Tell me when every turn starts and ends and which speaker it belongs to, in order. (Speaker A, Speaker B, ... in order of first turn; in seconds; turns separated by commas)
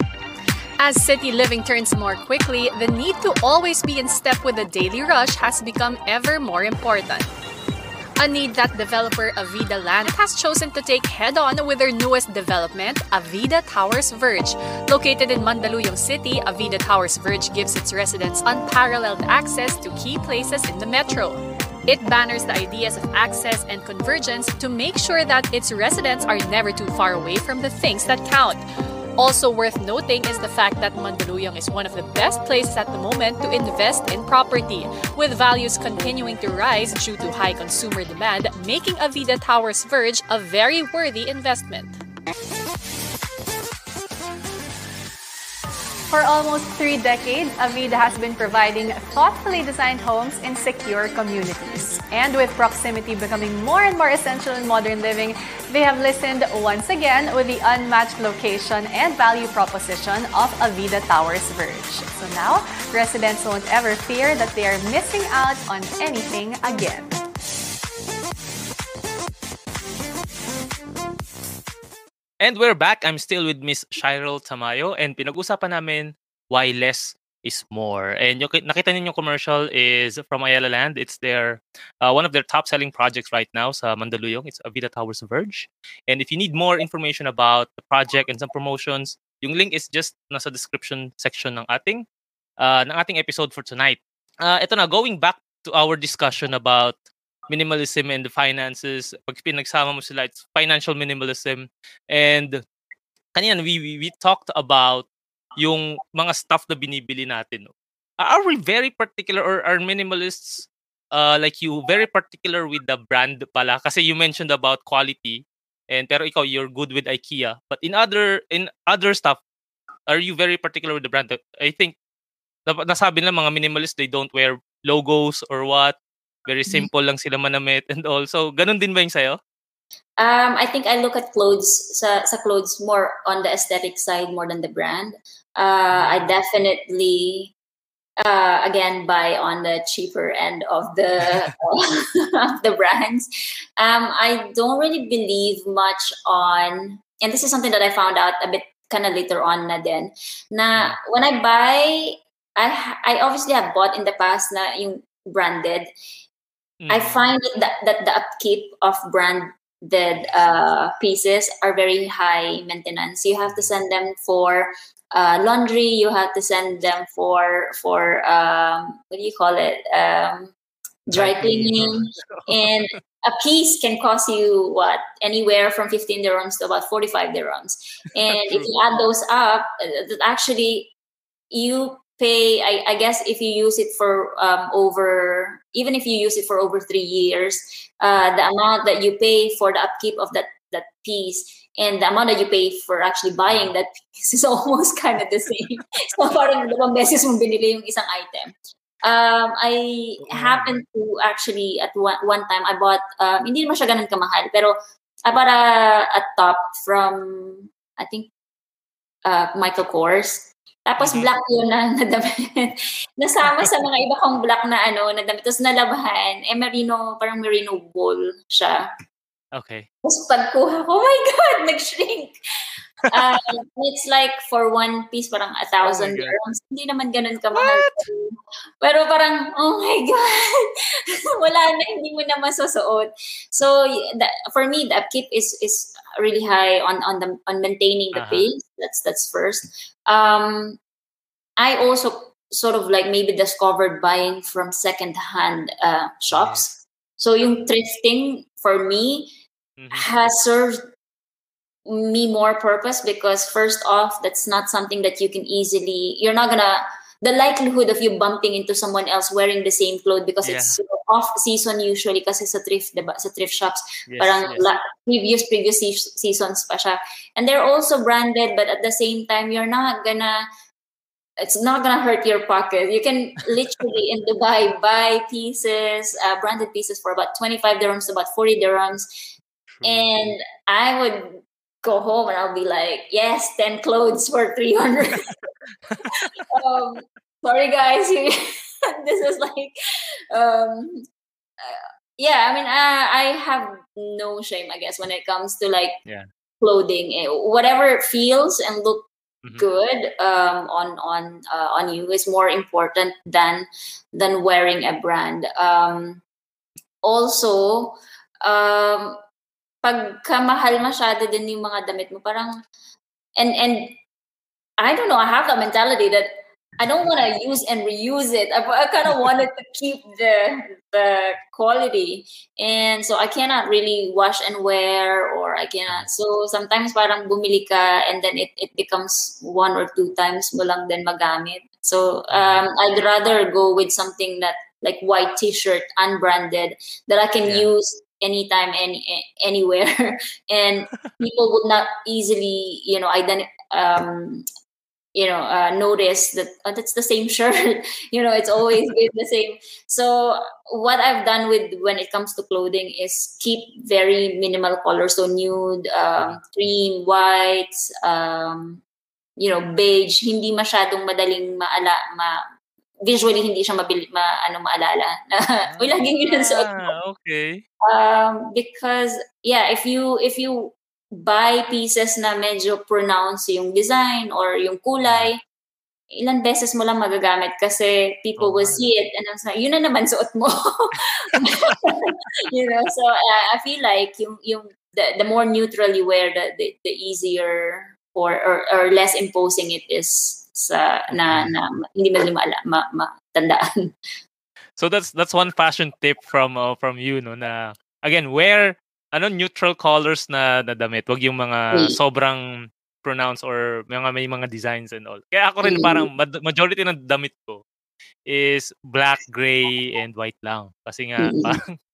Speaker A: 0.8-7.3, Speaker A: 8.2-28.6, Speaker A: 29.2-42.0, Speaker A: 46.1-67.2, Speaker B: 72.4-92.0, Speaker B: 92.6-97.0, Speaker B: 97.5-102.6, Speaker B: 103.3-105.1, Speaker B: 105.6-119.4, Speaker B: 120.1-122.0, Speaker B: 122.7-126.0, Speaker B: 126.5-129.4, Speaker C: 130.2-137.5, Speaker B: 135.9-136.3, Speaker C: 138.2-143.3, Speaker C: 143.8-155.9, Speaker B: 156.8-157.2, Speaker C: 156.9-170.5, Speaker C: 171.1-180.9, Speaker B: 171.1-173.0, Speaker B: 178.3-178.8, Speaker C: 181.5-208.3, Speaker B: 200.2-200.7, Speaker C: 209.3-218.9, Speaker B: 211.0-211.3, Speaker B: 219.6-219.9, Speaker C: 220.0-222.3, Speaker B: 223.0-223.3, Speaker C: 223.1-230.7, Speaker B: 225.8-226.4, Speaker B: 227.5-228.0, Speaker C: 231.3-240.8, Speaker B: 238.1-238.5, Speaker C: 241.6-249.3, Speaker B: 246.3-246.8, Speaker B: 249.8-250.2, Speaker C: 249.9-250.9, Speaker C: 251.9-270.5, Speaker B: 260.4-260.8, Speaker B: 264.1-264.7, Speaker C: 271.4-279.1, Speaker B: 279.7-280.4, Speaker C: 279.8-285.3, Speaker B: 285.9-286.4, Speaker C: 286.1-288.3, Speaker C: 289.0-289.7, Speaker C: 290.3-291.0, Speaker C: 291.6-296.0, Speaker C: 296.6-306.2, Speaker C: 307.0-309.2, Speaker C: 309.8-312.6, Speaker C: 313.4-314.0, Speaker C: 314.8-344.5, Speaker B: 332.3-332.6, Speaker C: 345.1-358.8, Speaker C: 359.4-362.4, Speaker C: 363.1-366.9, Speaker B: 365.7-367.6, Speaker C: 367.9-375.4, Speaker B: 375.1-375.3, Speaker C: 376.1-393.6, Speaker B: 378.4-378.9, Speaker B: 381.3-381.8, Speaker B: 391.1-391.5, Speaker B: 394.8-402.5, Speaker B: 403.0-407.6, Speaker C: 405.6-406.1, Speaker B: 408.3-411.8, Speaker C: 411.2-411.6